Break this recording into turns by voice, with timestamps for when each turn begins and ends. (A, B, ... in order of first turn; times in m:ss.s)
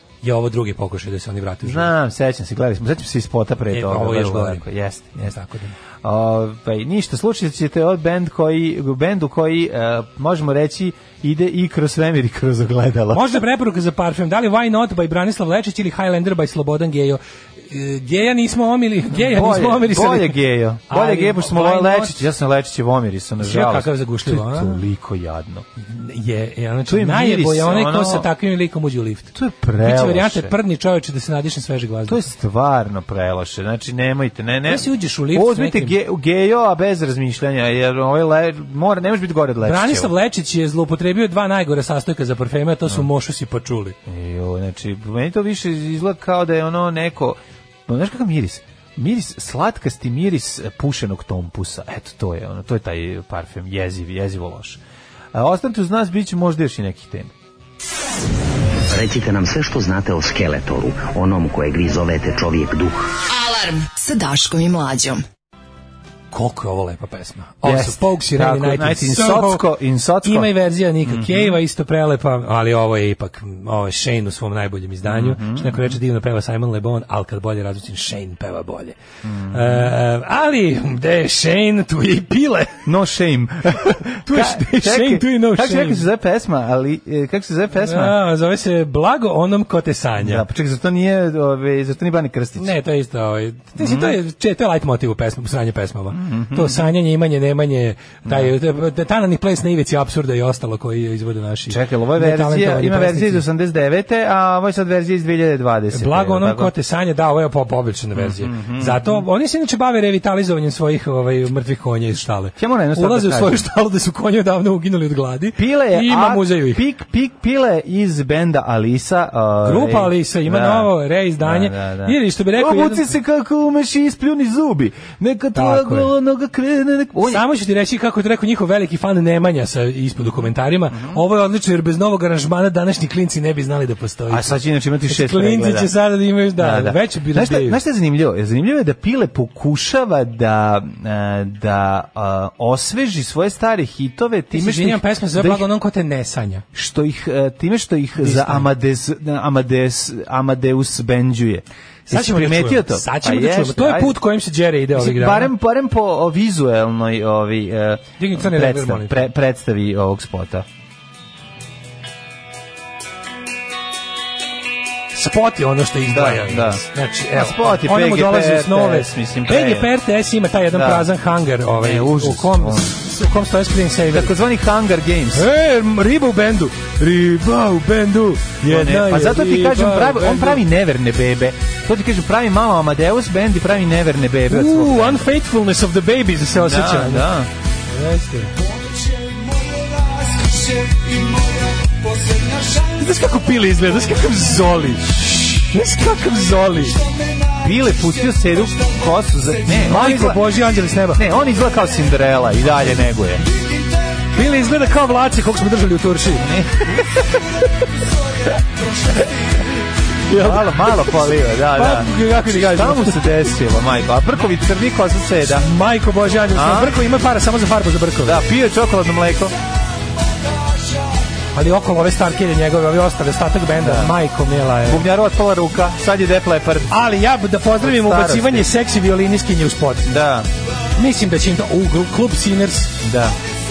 0:00.2-0:01.9 A
0:01.6-0:05.3 B
0:03.7-0:05.8 A
0:06.0-0:13.4 B
0:13.1-0:22.2 A
0:19.1-0:25.6 B
0:23.4-0:24.8 A
0:25.8-0:32.3 A
0:26.9-0:28.3 B
0:29.4-0:30.5 B
0:32.1-0:40.1 B
0:34.7-0:36.0 A
0:39.6-0:44.0 A
0:44.1-0:54.8 B
0:55.3-0:57.3 B
0:58.9-1:03.1 C
1:03.2-1:05.2 D
1:06.3-1:09.6 A
1:07.6-1:10.5 B
1:10.2-1:19.0 A
1:11.0-1:11.6 B
1:15.0-1:16.0 B
1:19.2-1:19.9 B
1:19.5-1:22.9 A
1:22.8-1:28.2 B
1:24.2-1:26.0 A
1:27.8-1:30.4 A
1:30.2-1:32.7 B
1:32.6-1:43.4 A
1:33.8-1:34.2 B
1:36.1-1:36.9 B
1:38.2-1:38.5 B
1:41.7-1:46.7 B
1:45.9-1:56.8 A
1:48.2-1:49.2 B
1:52.6-1:53.6 B
1:55.6-2:07.4 B
1:59.6-2:03.1 A
2:05.6-2:06.1 A
2:07.2-2:17.8 A
2:10.9-2:11.2 B
2:14.3-2:15.9 B
2:16.6-2:25.7 B
2:24.5-2:26.6 A
2:26.7-2:34.2 B
2:28.2-2:28.7 A
2:32.1-2:35.5 A
2:35.0-2:40.7 B
2:38.2-2:39.2 A
2:45.1-2:54.4 A
2:46.1-2:49.9 B
2:50.7-2:51.1 B
2:51.8-2:53.0 B
2:54.1-2:55.5 B
2:55.4-3:00.6 A
2:58.6-3:05.2 B
3:04.5-3:07.3 A
3:06.5-3:07.5 B
3:07.9-3:08.5 A
3:12.7-3:17.0 A
3:17.5-3:20.4 B
3:19.8-3:21.2 A
3:21.2-3:23.4 B
3:24.3-3:27.0 A
3:26.4-3:27.0 B
3:30.3-3:33.4 A
3:30.3-3:35.7 B
3:35.6-3:38.4 A
3:36.5-3:37.0 B
3:38.2-3:39.6 B
3:41.5-3:45.1 A
3:43.8-3:44.1 B
3:44.8-3:47.0 B
3:46.9-3:50.1 A
3:47.8-3:48.7 B
3:50.1-3:50.5 B
3:51.0-3:53.0 A
3:53.0-3:53.4 B